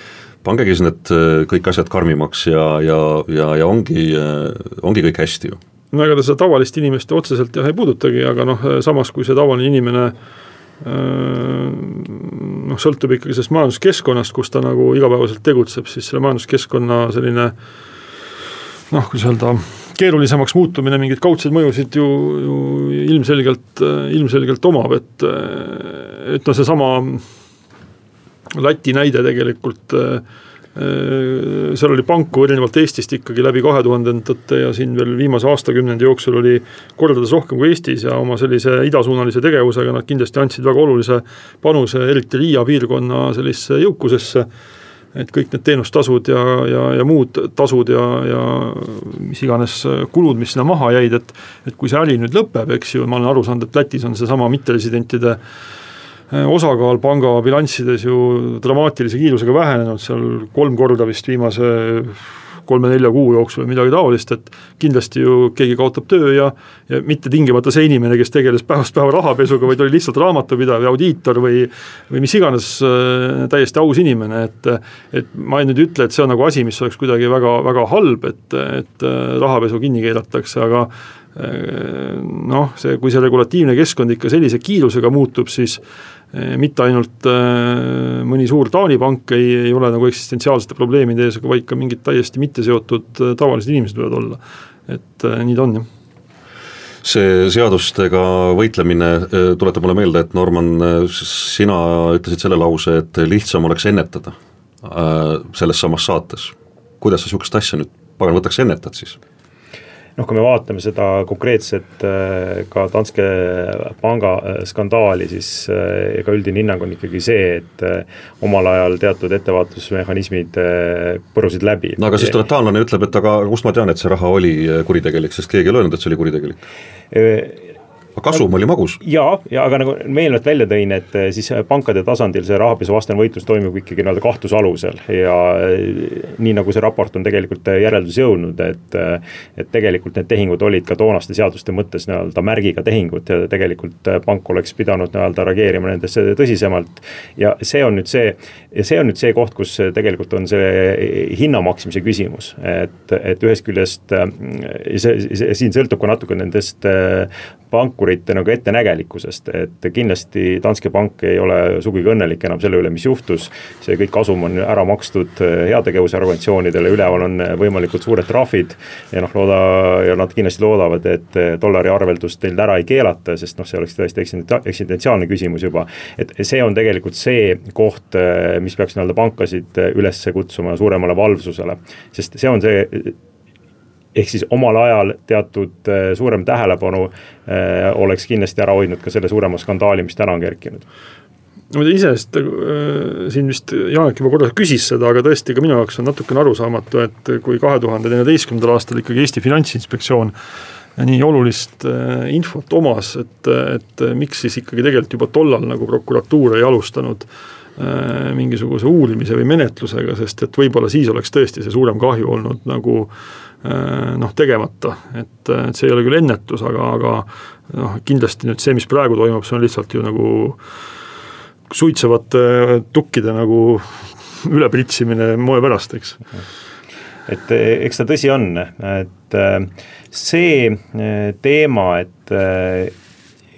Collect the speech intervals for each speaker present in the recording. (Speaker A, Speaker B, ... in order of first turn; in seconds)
Speaker A: 0.4-5.6, 97.0-109.2, 122.0-126.6, 128.2-129.0
Speaker B: 5.9-10.1, 10.8-17.5, 18.9-27.2, 28.5-30.2, 30.7-44.5, 45.1-55.4, 56.3-85.8, 86.3-95.9, 191.7-200.3, 201.0-207.3, 207.8-213.1, 213.6-220.6, 221.7-226.2
Speaker C: 110.2-122.3, 127.1-127.7, 129.0-183.2, 184.1-190.8, 227.3-232.9